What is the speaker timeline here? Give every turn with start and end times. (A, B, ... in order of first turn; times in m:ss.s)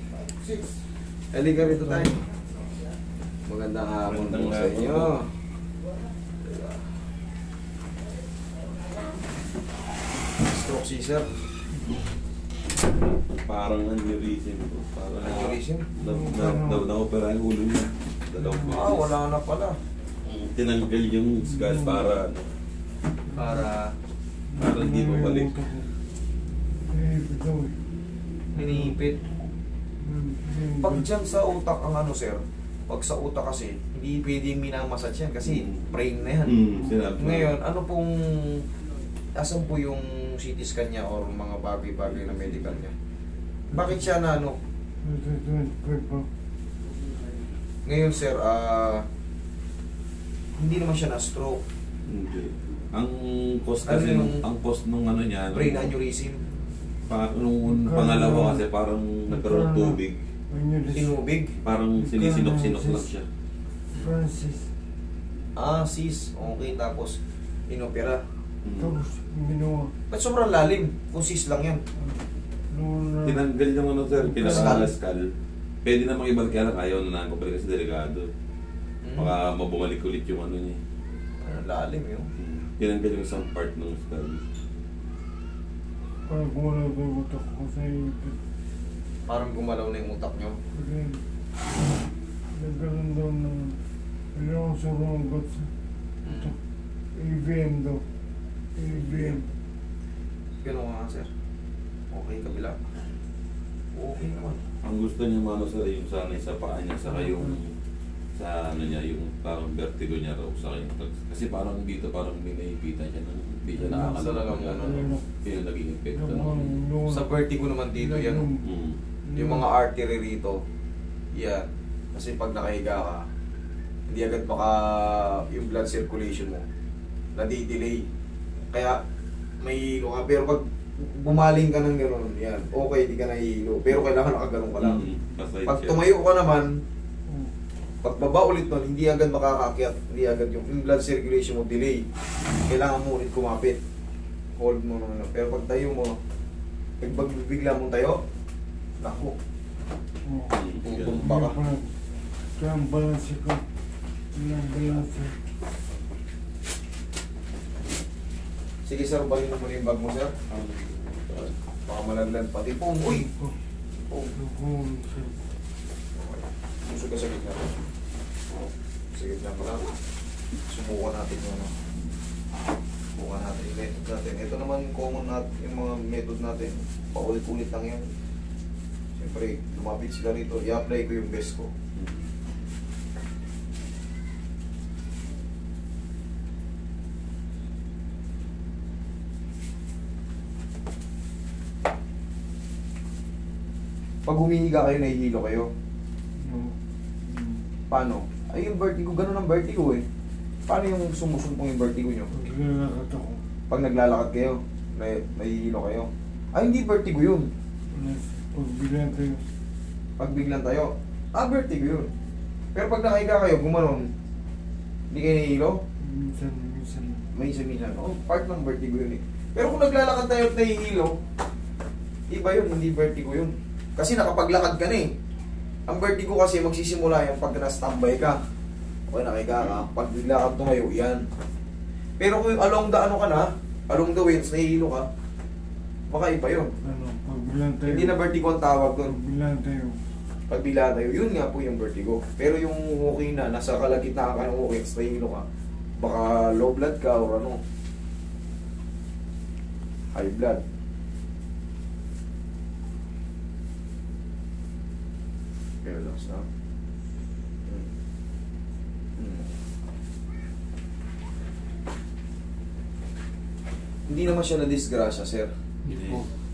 0:01.3-0:02.2 A
0:01.8-0:02.1 B
0:03.4-0:05.3 A
0:04.0-0:05.2 C
0:10.4-0:11.3 A
0:13.4-0:19.0 C
0:15.2-0:15.9 A
0:16.0-0:16.9 B
0:18.4-0:18.9 B
0:18.7-0:19.8 A
0:20.2-0:22.5 C
0:21.5-0:22.0 B
0:23.3-0:23.9 A
0:24.5-0:25.9 B
0:24.6-0:25.6 C
0:26.9-0:27.8 B
0:28.5-0:29.2 A
0:30.0-0:31.0 B
0:30.8-0:36.6 A
0:36.4-0:37.6 C
0:37.2-0:38.6 A
0:39.4-0:42.9 A
0:42.4-0:42.8 C
0:43.7-0:44.6 A
0:45.0-0:46.3 B
0:47.8-0:49.0 A
0:50.6-0:51.6 A
0:52.0-0:55.9 C
0:53.9-0:54.4 A
0:55.5-0:56.4 A
0:57.0-1:00.2 C
0:57.7-0:58.6 B
0:59.3-1:00.0 B
1:00.5-1:01.2 B
1:00.9-1:01.6 A
1:01.6-1:03.2 C
1:02.0-1:03.1 B
1:03.9-1:04.7 B
1:05.6-1:07.2 A
1:07.7-1:08.2 A
1:08.6-1:09.0 C
1:08.8-1:09.9 B
1:10.1-1:11.8 A
1:12.7-1:13.4 B
1:13.2-1:15.3 C
1:14.2-1:14.8 B
1:14.4-1:14.9 A
1:15.8-1:18.3 C
1:19.0-1:19.4 A
1:19.2-1:20.8 C
1:21.4-1:22.3 A
1:22.4-1:24.4 C
1:26.3-1:28.4 B
1:29.3-1:30.6 A
1:30.7-1:31.2 B
1:32.5-1:33.8 B
1:34.3-1:35.7 B
1:36.2-1:36.5 A
1:36.3-1:36.5 B
1:37.1-1:38.0 B
1:38.8-1:39.5 B
1:38.9-1:39.4 A
1:40.6-1:41.3 A
1:42.1-1:42.8 A
1:43.9-1:44.6 A
1:44.8-1:47.7 C
1:47.2-1:47.5 B
1:48.4-1:56.8 C
1:53.8-1:54.1 B
1:54.0-1:55.1 A
1:54.8-1:55.3 B
1:56.1-1:57.2 B
1:57.0-1:58.5 A
1:58.0-1:58.6 B
1:58.6-1:59.0 C
1:59.2-1:59.6 B
1:59.3-2:00.6 A
2:01.3-2:03.2 A
2:04.1-2:06.6 A
2:07.4-2:08.0 A
2:08.7-2:09.0 A
2:09.6-2:15.0 A
2:14.8-2:16.0 C
2:15.7-2:16.7 A
2:18.0-2:22.0 A
2:22.6-2:23.8 A
2:24.6-2:26.1 A
2:27.0-2:28.2 A
2:29.0-2:29.3 A
2:30.2-2:30.6 B
2:30.5-2:31.3 C
2:30.8-2:31.6 A
2:31.2-2:31.9 B
2:32.5-2:33.6 B
2:34.3-2:35.4 B
2:38.8-2:40.3 A
2:40.5-2:41.6 C
2:41.8-2:43.3 A
2:43.1-2:43.5 B
2:44.1-2:44.3 A
2:44.3-2:45.4 B
2:46.2-2:47.7 A
2:49.1-2:49.9 A
2:50.7-2:51.7 A
2:53.1-2:58.1 A
2:59.2-3:01.7 A
3:02.0-3:02.3 C
3:14.2-3:15.7 A
3:16.4-3:17.6 B
3:17.9-3:20.0 A
3:20.7-3:22.4 A
3:22.3-3:23.4 B
3:23.7-3:27.5 A
3:27.9-3:29.4 B
3:30.2-3:32.1 A
3:32.7-3:34.1 A
3:35.1-3:35.8 A
3:36.0-3:37.2 B
3:37.3-3:41.1 A
3:42.3-3:45.1 A
3:45.9-3:48.4 A
3:49.1-3:51.2 A
3:52.2-3:55.1 A
3:56.1-3:56.7 A
3:56.8-3:58.2 B
3:57.8-3:59.2 A
3:59.0-4:00.0 B
4:00.5-4:05.4 A
4:06.0-4:07.6 A
4:10.1-4:10.6 A
4:15.8-4:16.4 A
4:19.2-4:19.5 A
4:24.1-4:25.5 A
4:25.8-4:26.2 B
4:25.9-4:26.2 C